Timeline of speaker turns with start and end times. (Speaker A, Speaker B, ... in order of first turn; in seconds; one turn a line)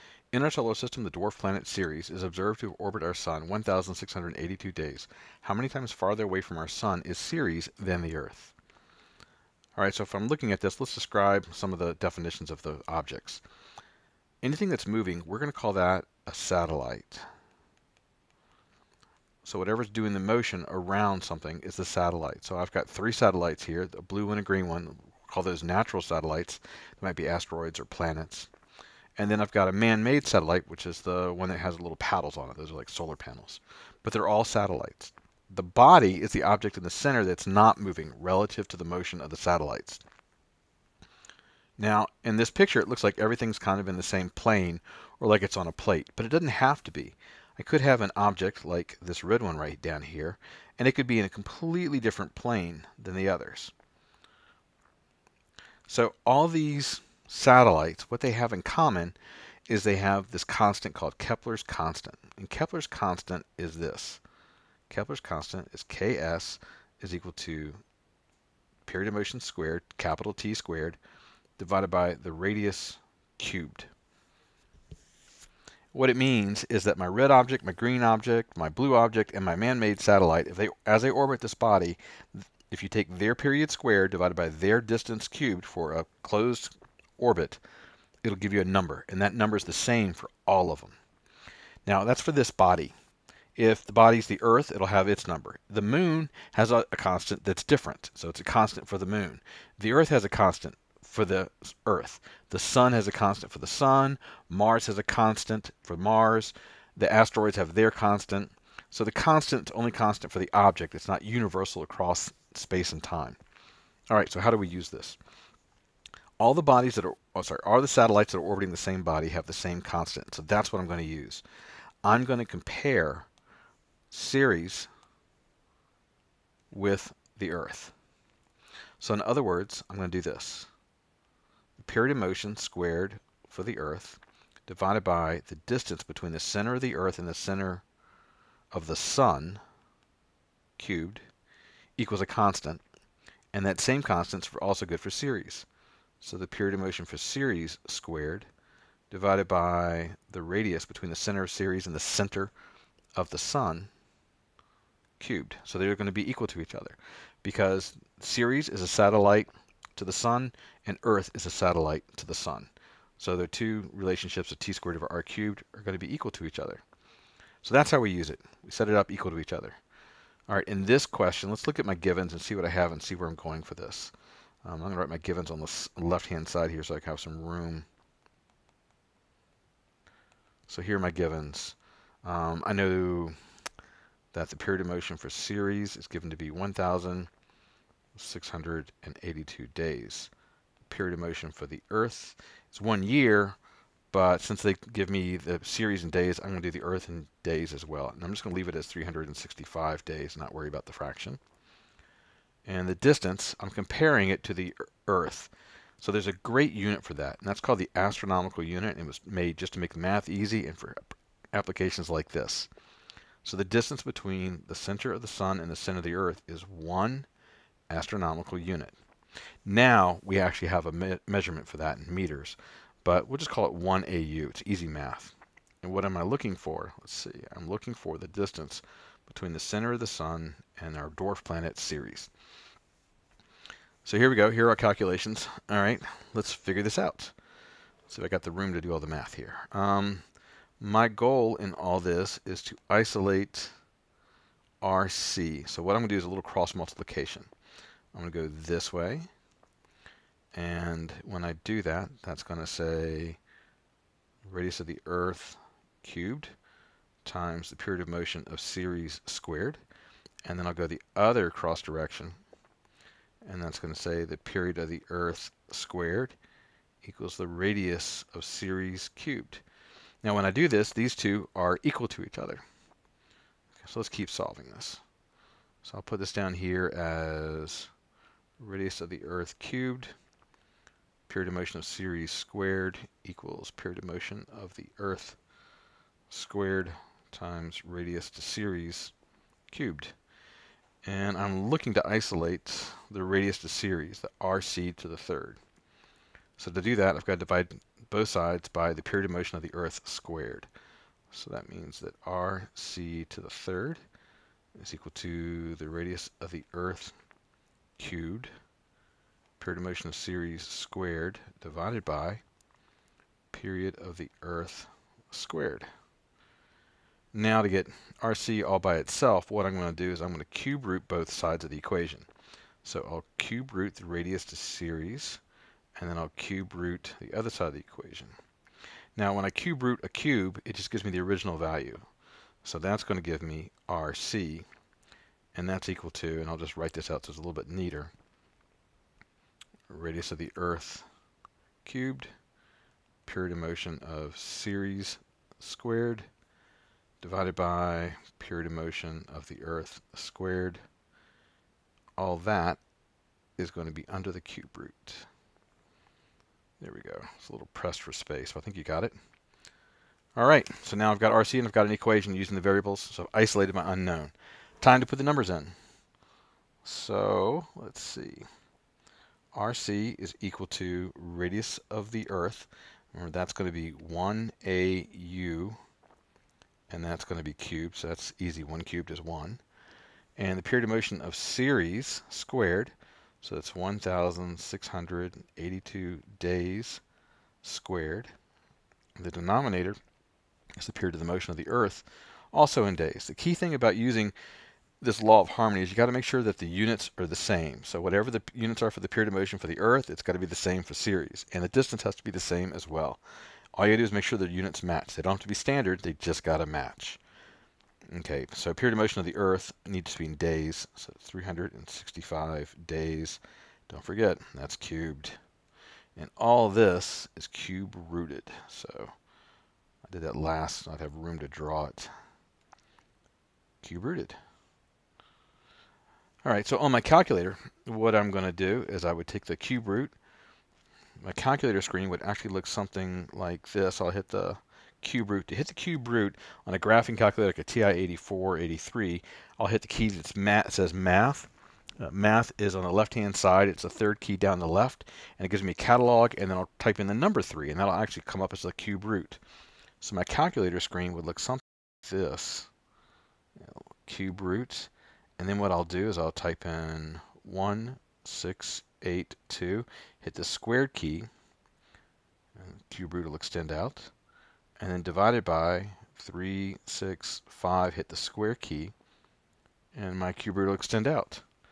Speaker A: 0.3-8.6
Speaker A: 9.8-13.4
Speaker A: 14.4-17.2
Speaker A: 19.4-28.5
Speaker A: 29.2-40.0
Speaker A: 41.8-53.7
Speaker A: 55.9-59.2
Speaker A: 59.7-64.2
Speaker A: 64.9-67.8
Speaker A: 68.8-71.0
Speaker A: 71.6-73.9
Speaker A: 75.9-87.6
Speaker A: 88.2-91.0
Speaker A: 91.9-93.0
Speaker A: 93.6-113.4
Speaker A: 114.1-115.2
Speaker A: 116.4-121.4
Speaker A: 122.0-123.3
Speaker A: 124.1-124.9
Speaker A: 126.7-127.9
Speaker A: 129.0-130.7
Speaker A: 131.8-137.8
Speaker A: 138.7-139.6
Speaker A: 140.8-141.3
Speaker A: 142.0-142.8
Speaker A: 143.5-145.7
Speaker A: 146.2-148.5
Speaker A: 149.1-152.5
Speaker A: 153.2-153.9
Speaker A: 155.2-166.8
Speaker A: 167.6-169.8
Speaker A: 170.5-177.9
Speaker A: 180.7-183.3
Speaker A: 184.3-187.3
Speaker A: 188.2-190.3
Speaker A: 190.8-193.6
Speaker A: 194.1-201.4
Speaker A: 202.7-212.7
Speaker A: 213.4-217.3
Speaker A: 217.9-219.0
Speaker A: 219.7-232.3
Speaker A: 234.1-237.3
Speaker A: 238.1-240.2
Speaker A: 240.8-243.7
Speaker A: 244.8-247.5
Speaker A: 248.1-249.3
Speaker A: 250.5-253.4
Speaker A: 254.4-256.6
Speaker A: 257.2-259.8
Speaker A: 260.4-262.4
Speaker A: 263.4-266.4
Speaker A: 267.0-269.6
Speaker A: 270.2-272.6
Speaker A: 273.8-275.0
Speaker A: 275.8-277.9
Speaker A: 278.6-280.1
Speaker A: 281.3-285.4
Speaker A: 286.3-289.1
Speaker A: 289.7-290.2
Speaker A: 291.0-295.6
Speaker A: 296.6-300.7
Speaker A: 301.3-304.0
Speaker A: 304.8-307.1
Speaker A: 308.0-308.5
Speaker A: 309.6-312.4
Speaker A: 313.5-315.9
Speaker A: 317.3-322.3
Speaker A: 322.8-325.4
Speaker A: 326.0-328.3
Speaker A: 329.2-332.1
Speaker A: 332.6-334.7
Speaker A: 335.6-338.1
Speaker A: 339.9-341.1
Speaker A: 341.9-342.3
Speaker A: 343.2-346.3
Speaker A: 347.2-350.8
Speaker A: 352.2-352.8
Speaker A: 353.6-355.3
Speaker A: 356.8-359.1
Speaker A: 360.4-365.8
Speaker A: 366.8-368.5
Speaker A: 369.5-375.8
Speaker A: 376.9-379.6
Speaker A: 380.4-387.0
Speaker A: 387.6-388.3
Speaker A: 389.2-390.0
Speaker A: 390.8-394.3
Speaker A: 395.0-403.2
Speaker A: 403.7-407.2
Speaker A: 408.1-415.4
Speaker A: 416.2-419.1
Speaker A: 420.0-422.1
Speaker A: 423.8-424.4
Speaker A: 426.4-430.1
Speaker A: 431.2-449.4
Speaker A: 450.0-452.7
Speaker A: 453.6-461.3
Speaker A: 462.6-464.1
Speaker A: 464.8-468.9
Speaker A: 469.9-471.4